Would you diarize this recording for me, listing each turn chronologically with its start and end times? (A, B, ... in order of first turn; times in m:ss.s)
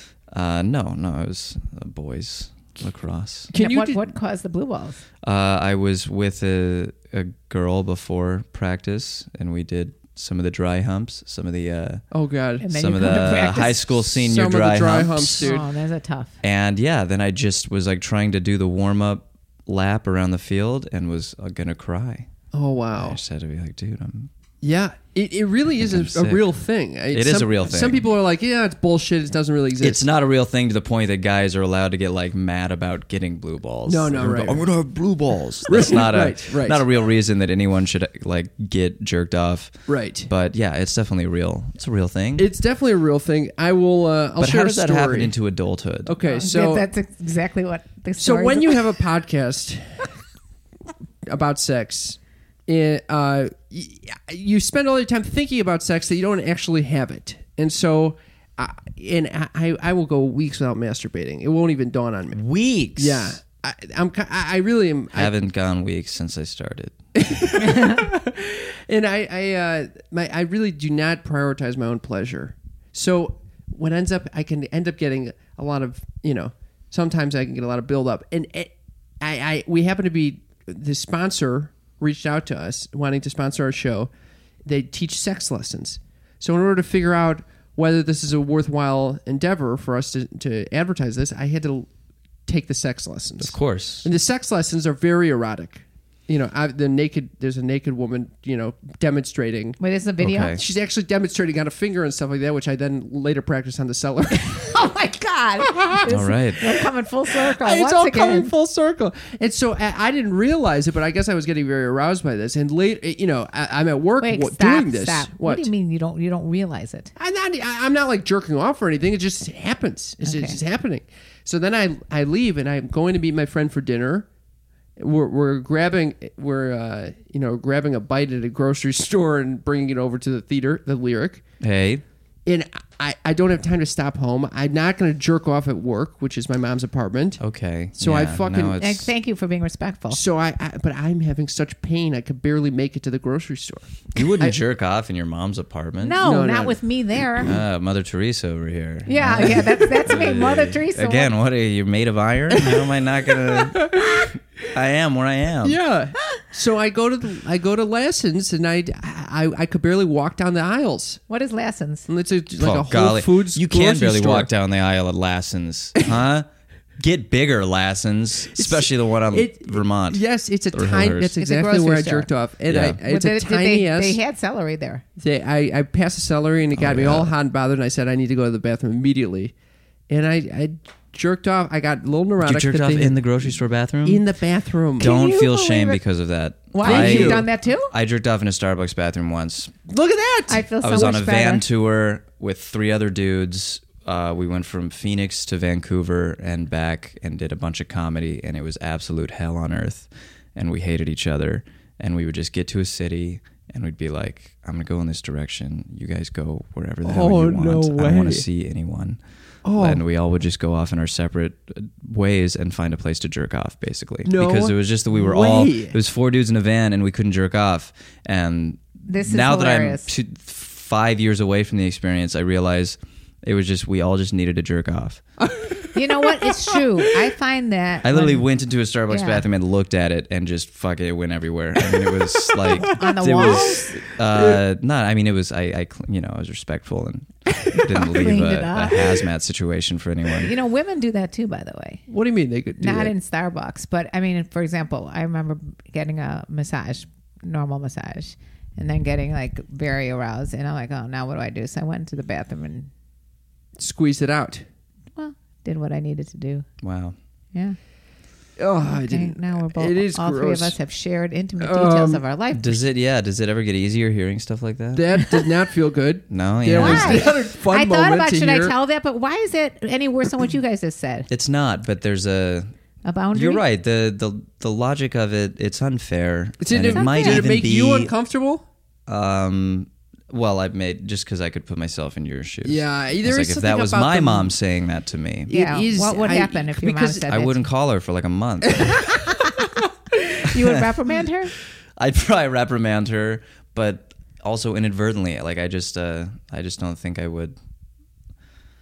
0:00.3-0:03.5 A
0:03.5-0:04.1 B
0:03.5-0:05.0 C
0:05.2-0:12.0 A
0:12.1-0:12.7 B
0:12.6-0:13.9 C
0:12.7-0:15.5 A
0:14.1-0:15.7 B
0:15.4-0:16.4 C
0:16.4-0:22.3 A
0:22.5-0:23.2 B
0:23.0-0:24.3 A
0:24.6-0:30.0 B
0:25.8-0:26.5 A
0:27.1-0:28.0 A
0:29.8-0:39.7 A
0:33.9-0:34.7 B
0:35.7-0:36.8 B
0:39.9-0:40.3 B
0:40.2-0:42.5 A
0:42.4-0:45.3 B
0:44.4-0:46.2 A
0:46.1-0:46.9 B
0:46.3-0:48.9 C
0:48.2-0:50.1 B
0:51.3-1:02.4 B
1:02.3-1:03.4 A
1:03.0-1:05.3 B
1:05.2-1:07.0 A
1:07.2-1:24.1 B
1:24.6-1:31.9 B
1:32.5-1:39.8 B
1:33.4-1:34.1 A
1:39.8-1:40.6 C
1:40.2-1:40.6 A
1:40.6-1:44.7 B
1:44.4-1:48.5 C
1:45.7-1:46.1 B
1:46.1-1:46.6 A
1:47.3-1:55.7 B
1:54.2-1:57.1 C
1:57.2-2:04.3 B
2:00.2-2:00.6 C
2:05.0-2:11.4 B
2:11.6-2:12.0 A
2:12.4-2:17.4 B
2:17.4-2:19.1 A
2:18.0-2:18.8 B
2:18.8-2:20.2 C
2:20.1-2:24.6 B
2:24.2-2:26.2 A
2:26.0-2:27.5 C
2:26.2-2:26.8 B
2:27.4-2:35.8 A
2:29.1-2:31.3 C
2:33.5-2:34.3 B
2:35.6-2:41.2 B
2:41.3-2:42.1 C
2:42.1-2:44.5 B
2:42.6-2:46.5 A
2:47.0-2:51.4 A
2:48.6-2:54.2 B
2:51.4-2:52.3 C
2:52.7-2:53.0 A
2:53.0-2:55.0 C
2:55.2-2:59.5 B
2:56.8-2:57.3 A
3:00.1-3:03.3 B
3:02.4-3:04.2 A
3:04.0-3:05.1 B
3:05.0-3:09.7 A
3:05.0-3:06.0 C
3:06.7-3:07.9 C
3:06.8-3:07.5 B
3:09.9-3:10.6 B
3:10.5-3:11.6 C
3:10.8-3:29.2 A
3:27.0-3:28.4 B
3:29.6-3:30.0 B
3:29.7-3:45.2 A
3:34.2-3:36.0 B
3:39.1-3:40.1 C
3:45.4-3:46.8 B
3:46.0-3:48.4 C
3:48.0-4:00.5 A
3:49.1-3:49.4 C
3:51.9-3:53.0 B
3:52.8-3:54.0 C
3:54.3-3:54.6 B
3:57.8-3:59.1 C
4:00.4-4:02.0 C
4:02.1-4:03.1 B
4:02.8-4:12.9 C
4:13.8-4:14.7 B
4:15.2-4:16.7 C
4:16.8-4:17.2 A
4:18.6-4:20.8 B
4:18.8-4:22.8 C
4:21.6-4:22.2 B
4:22.5-4:25.3 A
4:24.9-4:28.8 B
4:26.3-4:27.4 A
4:26.8-4:31.3 C
4:31.3-4:32.7 A
4:33.0-4:33.6 C
4:33.3-4:38.1 A
4:36.6-4:38.7 B
4:36.8-4:37.5 C
4:39.1-4:45.5 A
4:42.6-4:44.5 B
4:45.5-4:47.3 B
4:45.5-4:47.6 C
4:47.3-4:49.0 A
4:48.7-4:49.2 B
4:49.0-4:49.6 C
4:50.2-4:51.5 C
4:50.5-4:50.8 A
4:52.0-4:57.6 A